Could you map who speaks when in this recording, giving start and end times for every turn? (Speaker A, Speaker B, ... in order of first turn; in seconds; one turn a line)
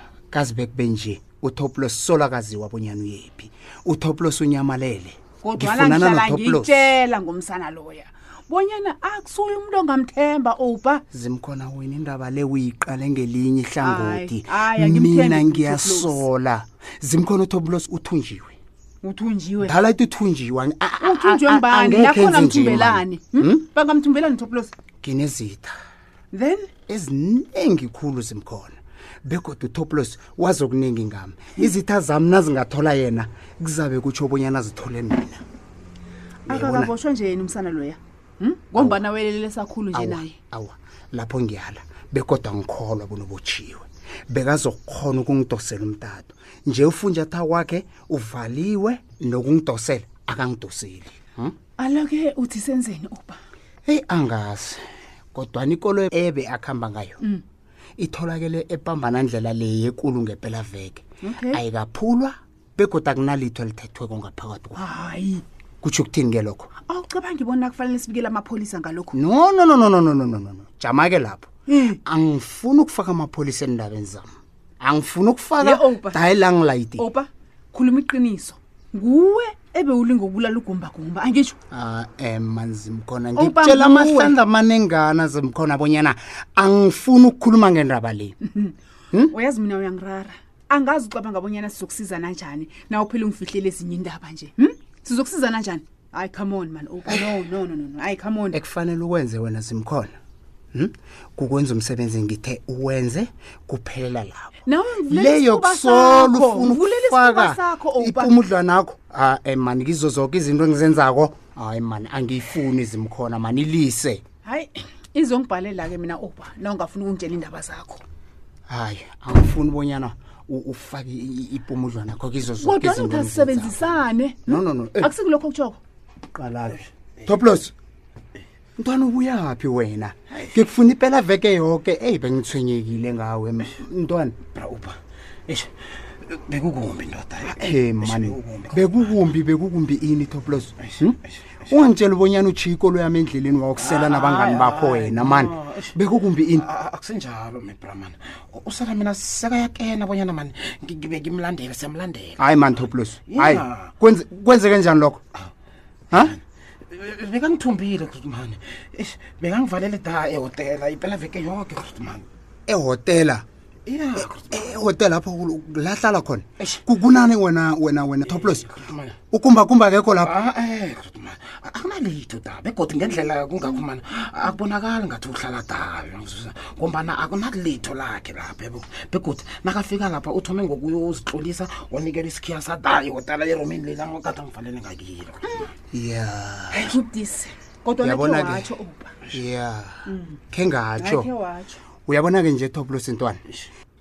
Speaker A: 0.3-6.9
Speaker B: 5.4-11.0
Speaker A: 11.1-18.6
Speaker B: 13.8-16.2
Speaker B: 19.0-19.8
Speaker A: 19.6-23.6
Speaker B: 21.0-24.7
Speaker A: 25.0-25.8
Speaker B: 26.3-26.7
Speaker A: 26.9-35.4
Speaker A: 36.5-36.9
Speaker B: 36.5-40.3
Speaker A: 38.8-39.0
Speaker A: 39.9-51.5
Speaker B: 51.8-53.4
Speaker A: 53.8-57.2
Speaker A: 58.0-64.8
Speaker B: 61.2-61.6
Speaker B: 64.7-65.4
Speaker A: 65.8-66.7
Speaker B: 66.8-69.2
Speaker A: 69.1-71.5
Speaker B: 71.7-72.0
Speaker A: 72.0-74.3
Speaker A: 74.8-77.1
Speaker B: 75.6-76.2
Speaker B: 77.0-81.5
Speaker A: 81.7-88.3
Speaker B: 83.3-84.3
Speaker B: 88.5-88.7
Speaker B: 89.3-98.6
Speaker A: 98.5-100.1
Speaker A: 100.7-114.2
Speaker B: 104.6-108.3
Speaker B: 114.4-118.0
Speaker A: 118.7-125.1
Speaker B: 122.6-125.8
Speaker A: 126.3-127.7
Speaker A: 128.8-134.4
Speaker C: 134.5-139.2
Speaker A: 137.4-146.7
Speaker C: 143.8-146.0
Speaker C: 146.5-153.9
Speaker A: 152.4-155.2
Speaker C: 156.1-162.2
Speaker A: 162.7-163.4
Speaker C: 163.8-164.8
Speaker A: 164.2-168.7
Speaker C: 168.2-169.2
Speaker A: 169.3-170.4
Speaker C: 170.2-185.7
Speaker A: 185.9-186.9
Speaker B: 186.8-189.2
Speaker A: 188.0-188.7
Speaker A: 189.3-191.3
Speaker B: 190.1-190.4
Speaker B: 191.0-191.8
Speaker A: 192.1-193.4